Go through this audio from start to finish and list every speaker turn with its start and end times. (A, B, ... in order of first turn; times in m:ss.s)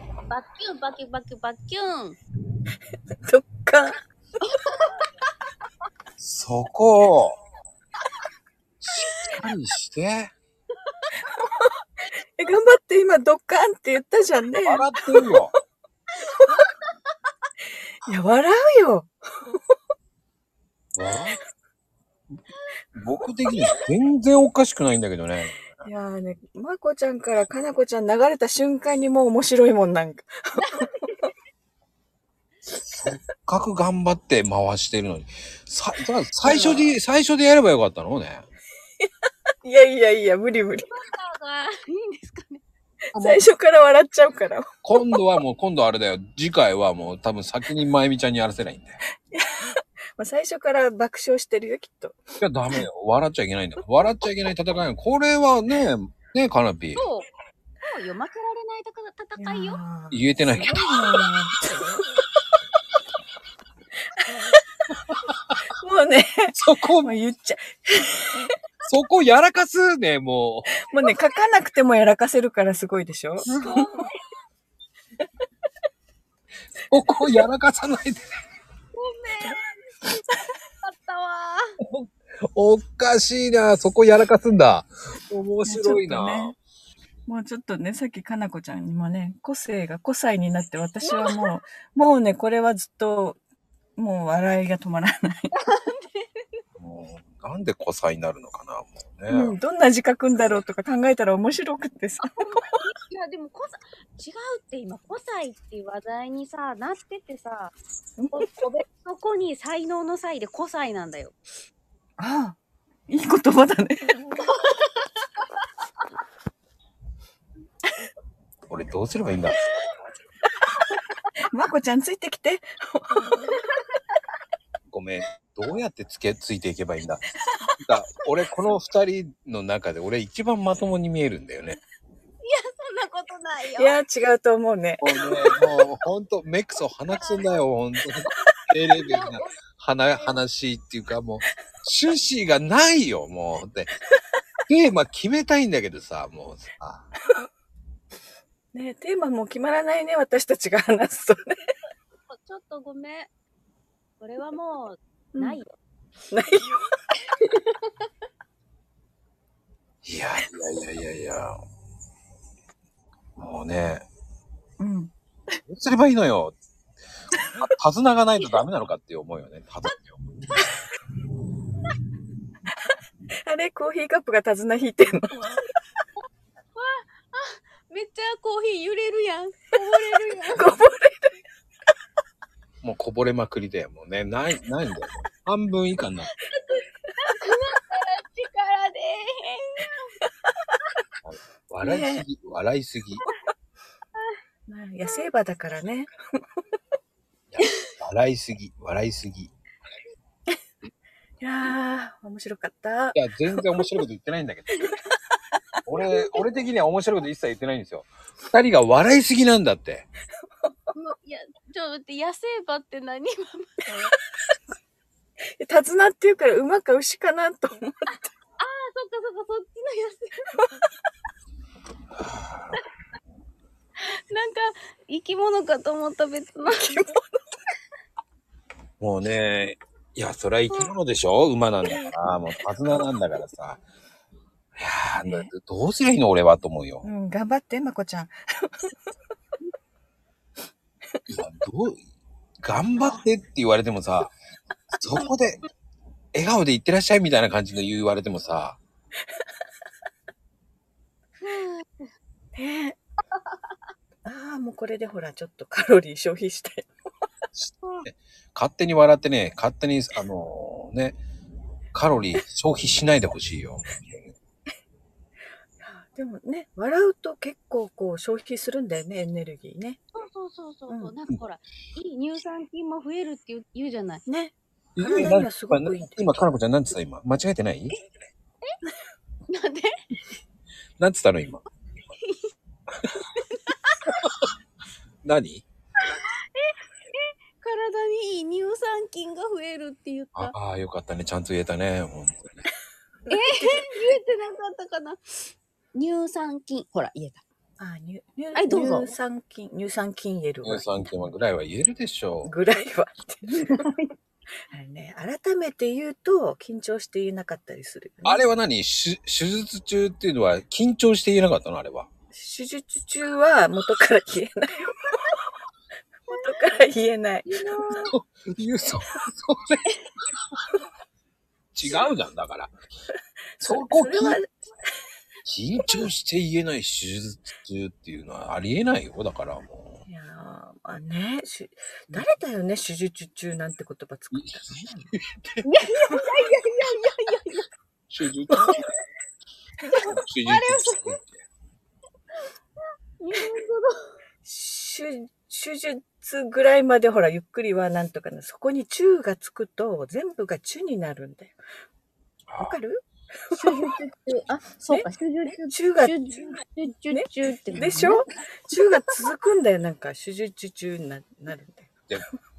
0:00.3-0:02.2 A
0:03.2-0:04.0 B
0:04.6-0:05.0 A
0:06.2-0:07.4 C
0:08.8-0:10.3 C
0:09.0-0:09.3 A
0:11.2-0:11.7 B
0:12.4-0:15.6 B
0:14.6-0:15.5 C
0:18.0-0:19.6 B
0:20.9-0:21.4 C
0:22.9-0:25.8 C
0:25.8-0:31.1 B
0:32.9-0:38.4 C
0:36.4-0:37.0 B
0:39.6-0:40.9 B
0:40.9-0:42.6 A
0:43.1-0:45.2 B
0:44.8-0:49.0 C
0:49.3-0:52.8 B
0:52.4-0:57.0 C
0:57.0-0:57.3 A
0:57.8-0:59.8 A
0:59.4-1:02.0 B
1:00.1-1:01.2 C
1:04.2-1:04.6 B
1:05.8-1:08.5 B
1:06.6-1:07.1 C
1:08.8-1:10.7 C
1:10.8-1:14.0 B
1:13.5-1:14.2 A
1:16.9-1:18.3 C
1:18.9-1:20.3 A
1:20.8-1:21.6 A
1:21.8-1:26.5 C
1:25.6-1:26.5 B
1:27.2-1:33.4 B
1:31.0-1:31.6 A
1:34.0-1:35.5 B
1:35.6-1:36.2 A
1:36.8-1:39.6 C
1:39.3-1:42.4 B
1:42.2-1:47.7 A
1:48.2-1:48.6 B
1:48.3-1:51.4 A
1:52.2-1:52.6 B
1:53.1-1:54.1 B
1:58.7-1:59.6 C
2:01.5-2:03.5 B
2:04.9-2:07.2 C
2:07.8-2:11.8 C
2:12.4-2:14.0 A
2:13.8-2:15.0 B
2:15.0-2:23.9 C
2:17.2-2:17.5 A
2:19.0-2:19.4 A
2:24.7-2:27.1 C
2:28.7-2:31.7 B
2:32.3-2:33.3 A
2:34.2-2:35.7 A
2:36.3-2:36.8 B
2:40.0-2:41.6 C
2:43.4-2:44.0 C
2:44.8-2:45.1 B
2:45.7-2:46.6 C
2:47.6-2:50.2 C
2:53.4-2:55.6 B
2:55.3-2:55.6 A
2:56.8-3:00.7 A
3:00.4-3:01.4 B
3:02.8-3:06.3 C
3:06.3-3:10.1 A
3:11.2-3:13.2 C
3:11.8-3:12.2 B
3:14.7-3:16.1 B
3:17.5-3:19.5 C
3:21.4-3:23.6 B
3:23.1-3:24.8 C
3:25.8-3:30.1 C
3:30.9-3:34.1 A
3:35.6-3:38.2 B
3:38.6-3:40.4 A
3:42.2-3:42.8 C
3:44.3-3:46.9 A
3:46.8-3:47.4 B
3:49.0-3:53.8 C
3:54.8-3:57.1 C
3:55.2-3:55.5 B
3:57.0-3:58.9 B
4:01.3-4:02.0 C
4:02.6-4:04.3 C
4:05.0-4:05.6 C
4:06.3-4:08.8 C
4:11.4-4:12.1 A
4:12.5-4:13.0 B
4:14.2-4:16.9 B
4:17.5-4:21.2 C
4:21.9-4:24.3 C
4:25.8-4:30.0 B
4:30.1-4:34.2 A
4:30.9-4:31.1 B
4:34.3-4:36.4 B
4:35.0-4:38.0 C
4:39.5-4:39.9 A
4:41.0-4:41.6 C
4:43.4-4:44.0 A
4:44.1-4:44.5 C
4:45.2-4:45.6 C
4:46.1-4:50.5 A
4:50.3-4:52.6 C
4:53.3-4:55.2 A
4:55.9-4:57.4 A
4:57.8-5:01.2 B
4:58.5-4:59.1 A
5:00.6-5:02.5 C
5:02.4-5:03.8 B
5:03.5-5:04.1 A
5:04.7-5:08.5 B
5:08.2-5:12.1 C
5:12.3-5:15.2 B
5:16.3-5:18.1 B
5:17.4-5:18.1 A
5:18.0-5:19.9 C
5:21.7-5:22.7 C
5:23.6-5:24.6 B
5:23.6-5:24.4 C
5:25.4-5:30.0 C
5:25.8-5:26.1 B
5:30.0-5:35.1 B
5:34.3-5:35.6 C
5:35.6-5:37.7 A
5:38.1-5:38.9 C
5:38.5-5:38.8 B
5:39.9-5:40.2 B
5:40.1-5:41.4 C
5:40.4-5:41.2 A
5:43.2-5:43.9 A
5:44.4-5:51.6 B
5:52.5-5:52.8 C
5:52.6-5:53.9 B
5:53.5-5:58.2 A
5:55.7-5:56.6 B
5:57.1-6:01.9 B